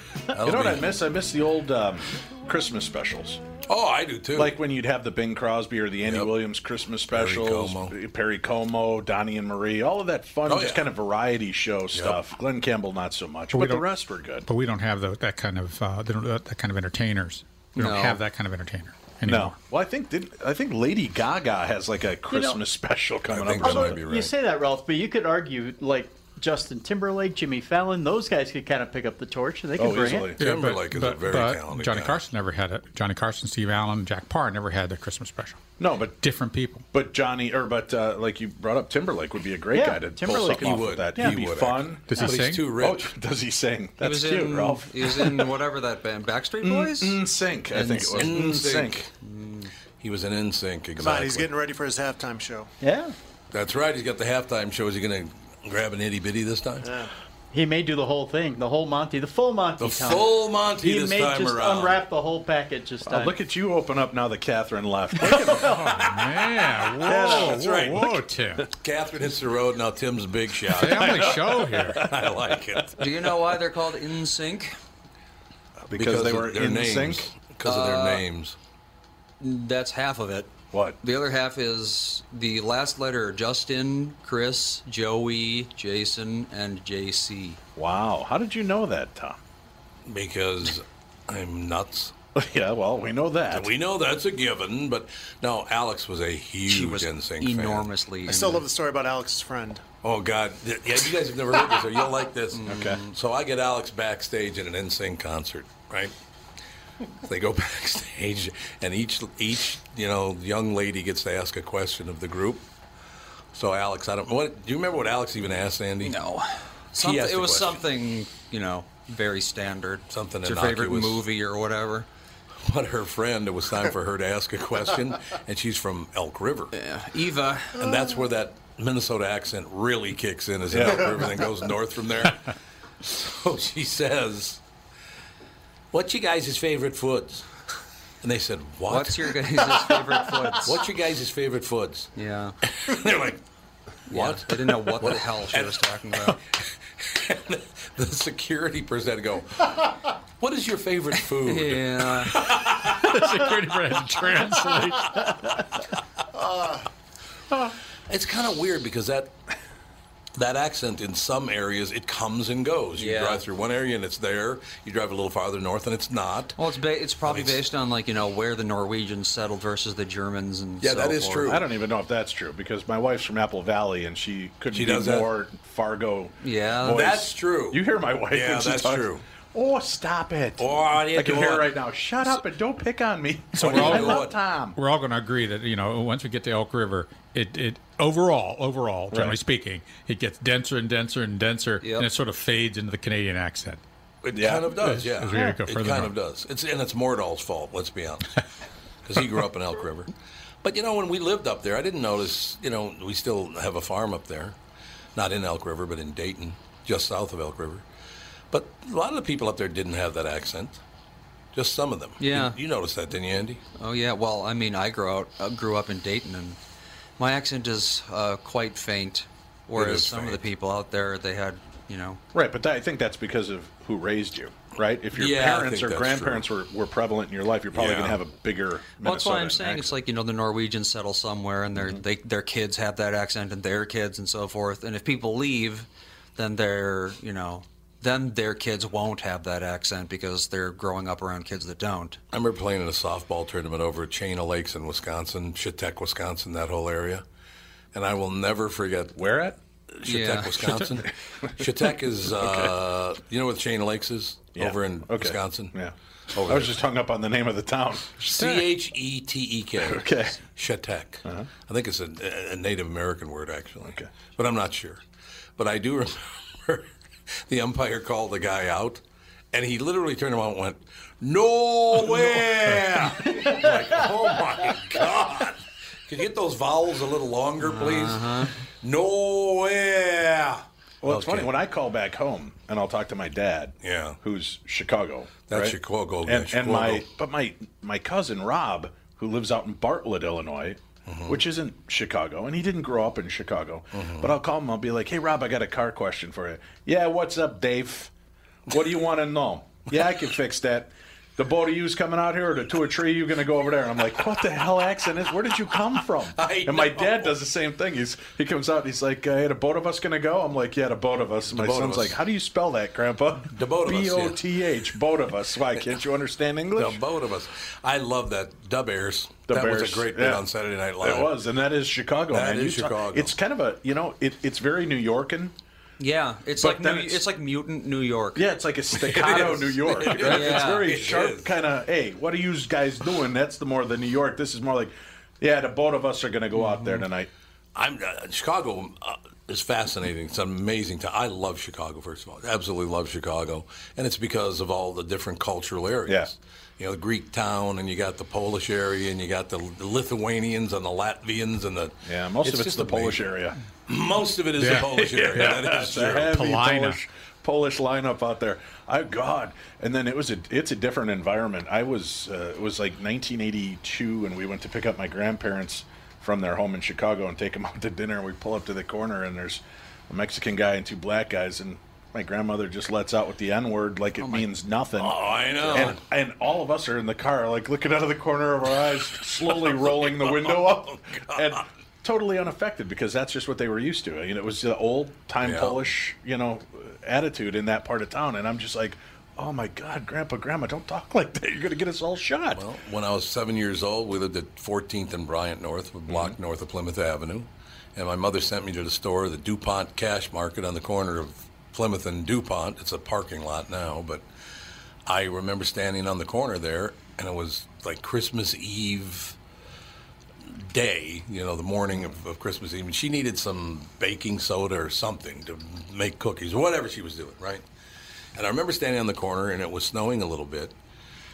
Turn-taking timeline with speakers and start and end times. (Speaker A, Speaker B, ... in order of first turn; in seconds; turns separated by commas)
Speaker A: 0.3-0.9, Speaker B: 0.4-3.4, Speaker A: 3.7-4.5, Speaker B: 4.3-14.5, Speaker A: 6.0-6.3, Speaker A: 7.1-7.9, Speaker A: 10.5-10.8, Speaker A: 11.9-12.2, Speaker C: 13.5-19.6, Speaker D: 17.8-18.2, Speaker B: 19.2-24.0, Speaker E: 22.3-22.6, Speaker A: 23.3-24.3, Speaker E: 23.6-30.3, Speaker B: 29.8-30.4, Speaker C: 30.4-35.6, Speaker A: 30.4-32.2, Speaker B: 35.8-36.2, Speaker C: 36.2-36.9, Speaker B: 36.9-45.5, Speaker E: 39.7-41.4, Speaker A: 40.3-43.1, Speaker C: 42.1-42.7, Speaker D: 44.0-48.4, Speaker B: 46.6-49.1, Speaker A: 48.1-49.0, Speaker D: 49.2-49.7, Speaker A: 50.0-51.5, Speaker F: 51.0-52.7, Speaker E: 52.8-53.1, Speaker A: 53.5-56.9, Speaker F: 56.8-57.1, Speaker E: 57.5-63.4, Speaker A: 59.8-62.0, Speaker B: 63.0-66.1, Speaker C: 65.5-68.7, Speaker B: 67.0-68.1, Speaker A: 67.1-68.1, Speaker A: 68.8-71.4, Speaker C: 70.8-72.0, Speaker B: 70.9-72.1, Speaker A: 72.0-73.0, Speaker D: 73.0-74.7, Speaker B: 75.9-77.3, Speaker A: 75.9-78.6, Speaker D: 77.7-78.2, Speaker D: 79.4-80.5, Speaker D: 81.0-87.6, Speaker B: 87.8-89.4, Speaker A: 90.1-92.1, Speaker B: 92.4-93.7, Speaker A: 93.5-97.9, Speaker D: 96.7-98.7, Speaker F: 98.3-99.8, Speaker A: 100.0-106.1, Speaker D: 102.5-103.0, Speaker B: 102.7-103.0, Speaker A: 107.3-112.7, Speaker A: 113.5-116.2, Speaker D: 116.0-122.1, Speaker A: 117.0-117.8, Speaker A: 120.1-121.2, Speaker A: 122.6-126.7, Speaker D: 126.7-127.8, Speaker A: 127.8-132.5, Speaker B: 130.7-131.3, Speaker A: 133.0-134.6, Speaker A: 135.9-137.5, Speaker A: 138.2-139.4, Speaker D: 138.9-140.8, Speaker A: 140.7-142.1, Speaker D: 142.2-142.6, Speaker A: 142.8-143.4, Speaker D: 144.1-146.4, Speaker A: 144.1-146.4, Speaker A: 147.0-149.8, Speaker A: 150.4-153.1, Speaker D: 151.4-152.4, Speaker C: 152.9-155.2, Speaker A: 158.1-159.3, Speaker A: 160.4-166.6, Speaker D: 163.0-163.4, Speaker D: 166.6-171.6, Speaker A: 167.3-167.6, Speaker A: 170.8-171.6, Speaker B: 171.4-184.8, Speaker A: 174.7-175.3, Speaker D: 176.4-177.2, Speaker A: 176.9-179.2, Speaker A: 180.6-181.7, Speaker C: 183.6-193.8, Speaker A: 183.6-184.4, Speaker B: 189.1-189.4, Speaker D: 191.8-192.1, Speaker A: 194.2-198.3, Speaker B: 194.3-194.7, Speaker C: 194.7-196.2, Speaker A: 199.1-200.1, Speaker A: 200.6-204.6, Speaker A: 205.2-207.8, Speaker A: 208.5-210.8, Speaker A: 211.5-213.6, Speaker D: 212.2-212.6, Speaker D: 213.8-216.6, Speaker D: 217.2-222.2, Speaker A: 219.8-220.4, Speaker B: 222.3-230.0, Speaker A: 225.1-226.5, Speaker A: 227.7-228.2, Speaker D: 229.0-242.2, Speaker A: 242.3-247.2, Speaker A: 247.9-249.3, Speaker B: 249.2-249.6, Speaker A: 250.0-255.8, Speaker D: 250.1-250.8, Speaker B: 252.3-252.7, Speaker B: 254.6-255.9, Speaker A: 256.3-256.8, Speaker B: 256.5-258.6, Speaker A: 258.2-265.0, Speaker B: 259.8-260.4, Speaker B: 263.8-264.1, Speaker A: 265.6-266.9, Speaker A: 267.5-278.3, Speaker D: 277.6-278.5, Speaker A: 278.8-281.5, Speaker B: 281.0-298.1, Speaker A: 283.8-284.2, Speaker A: 285.5-287.1, Speaker A: 291.1-291.4, Speaker A: 293.9-294.4, Speaker B: 298.7-317.0, Speaker A: 306.3-307.4, Speaker A: 311.5-312.2, Speaker A: 313.5-314.4, Speaker A: 316.8-321.3, Speaker B: 319.5-320.5, Speaker B: 321.0-325.5, Speaker A: 322.3-323.3, Speaker D: 326.0-328.5, Speaker B: 326.6-327.2, Speaker B: 328.4-337.3, Speaker A: 328.9-331.5, Speaker D: 330.2-330.9, Speaker D: 336.6-337.1, Speaker A: 337.8-353.3, Speaker B: 346.1-346.3, Speaker B: 352.1-353.6, Speaker A: 353.9-356.4, Speaker C: 354.6-354.9, Speaker B: 354.7-392.6, Speaker C: 356.2-357.0, Speaker D: 374.2-374.5, Speaker A: 375.0-376.0, Speaker D: 375.7-375.9, Speaker A: 379.4-381.6, Speaker A: 385.4-385.8, Speaker A: 392.5-404.2, Speaker B: 396.1-396.4, Speaker A: 405.1-409.4, Speaker A: 410.5-417.6, Speaker B: 411.9-412.2, Speaker A: 418.4-420.8